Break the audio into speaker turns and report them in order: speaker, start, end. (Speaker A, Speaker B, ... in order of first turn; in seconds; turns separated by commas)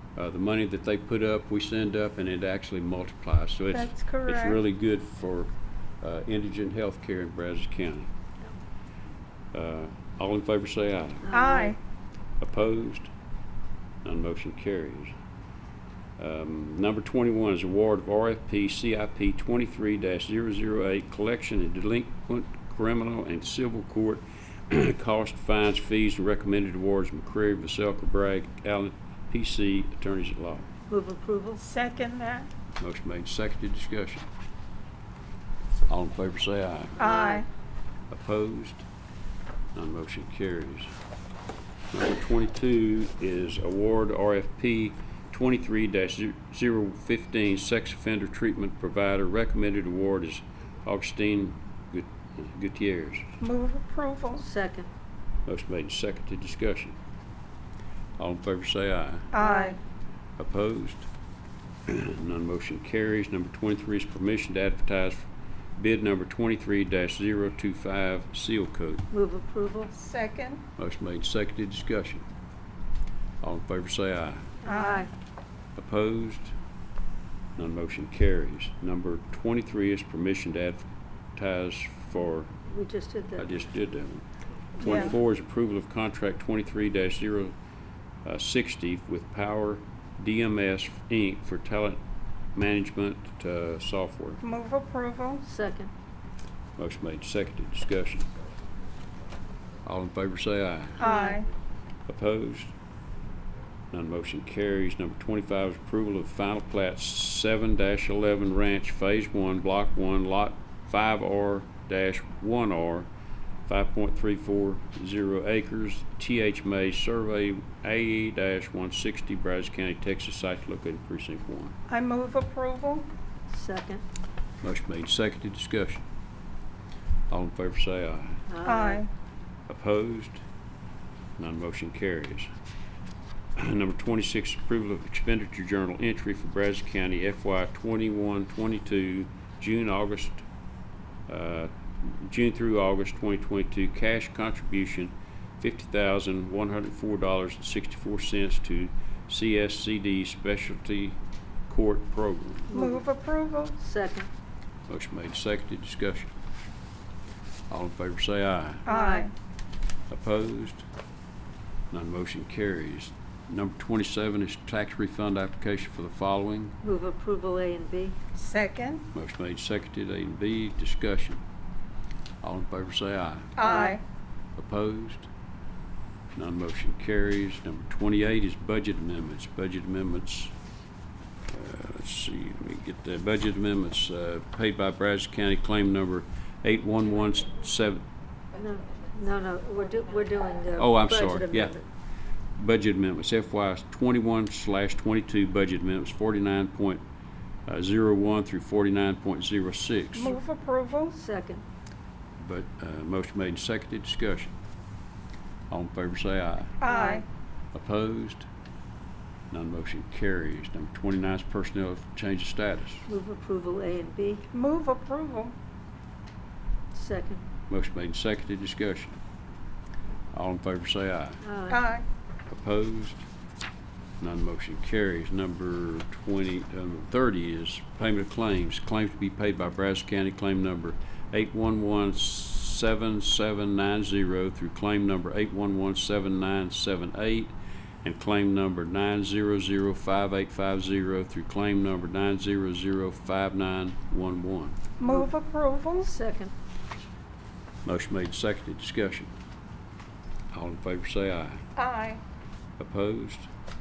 Speaker A: 0.1-8.1, Speaker B: 3.7-4.6, Speaker A: 9.5-11.3, Speaker C: 11.3-11.7, Speaker B: 11.3-11.8, Speaker A: 12.4-13.1, Speaker A: 14.0-15.1, Speaker A: 16.2-30.7, Speaker C: 30.9-31.6, Speaker B: 31.6-32.5, Speaker A: 32.8-34.2, Speaker A: 35.9-37.0, Speaker C: 37.0-37.4, Speaker B: 37.0-37.5, Speaker A: 38.1-38.9, Speaker A: 39.7-40.9, Speaker A: 41.9-53.3, Speaker B: 53.4-54.4, Speaker C: 54.4-54.9, Speaker A: 55.5-57.0, Speaker A: 58.2-59.3, Speaker B: 59.3-59.8, Speaker C: 59.4-59.7, Speaker A: 60.4-61.1, Speaker A: 61.9-69.1, Speaker C: 69.1-69.9, Speaker B: 69.9-70.6, Speaker A: 70.8-72.2, Speaker A: 73.4-74.6, Speaker C: 74.6-75.1, Speaker B: 74.7-75.0, Speaker A: 75.8-76.5, Speaker A: 77.6-82.5, Speaker C: 82.7-83.5, Speaker A: 83.4-84.2, Speaker A: 84.8-87.5, Speaker B: 84.8-85.1, Speaker A: 88.2-92.0, Speaker A: 92.5-94.4, Speaker B: 94.4-95.4, Speaker C: 95.4-95.9, Speaker A: 96.8-98.3, Speaker A: 99.8-101.2, Speaker B: 101.0-101.5, Speaker A: 102.1-102.7, Speaker A: 103.9-113.1, Speaker A: 113.7-121.8, Speaker B: 121.9-123.1, Speaker C: 123.5-124.0, Speaker A: 124.6-126.0, Speaker A: 127.3-128.4, Speaker C: 128.5-129.0, Speaker B: 128.6-129.1, Speaker A: 129.7-130.4, Speaker A: 131.4-132.5, Speaker A: 133.6-140.4, Speaker A: 141.3-152.7, Speaker C: 152.7-153.0, Speaker B: 152.7-153.8, Speaker C: 153.8-154.3, Speaker A: 154.9-156.3, Speaker A: 157.7-158.9, Speaker B: 158.8-159.3, Speaker C: 158.9-159.3, Speaker A: 160.1-160.8, Speaker A: 161.9-166.8, Speaker C: 166.8-168.2, Speaker B: 168.4-169.0, Speaker A: 169.1-171.4, Speaker A: 172.4-173.8, Speaker B: 173.6-174.0, Speaker A: 174.6-175.3, Speaker A: 176.3-180.5, Speaker A: 181.5-188.0, Speaker C: 188.6-191.8, Speaker A: 190.8-191.7, Speaker A: 192.6-197.0, Speaker A: 197.7-200.4, Speaker B: 200.1-201.2, Speaker C: 201.2-201.6, Speaker A: 202.4-204.5, Speaker A: 205.7-206.8, Speaker B: 206.8-207.2, Speaker C: 206.9-207.2, Speaker A: 207.7-208.5, Speaker A: 209.5-213.1, Speaker C: 213.1-214.5, Speaker B: 214.5-215.5, Speaker C: 216.9-217.4, Speaker A: 217.7-219.2, Speaker A: 220.3-221.4, Speaker C: 221.4-221.8, Speaker B: 221.7-222.0, Speaker A: 222.5-223.2, Speaker A: 224.2-244.8, Speaker B: 245.0-246.1, Speaker C: 246.0-246.5, Speaker A: 247.8-249.3, Speaker A: 250.5-251.6, Speaker B: 251.8-252.2, Speaker A: 252.8-253.5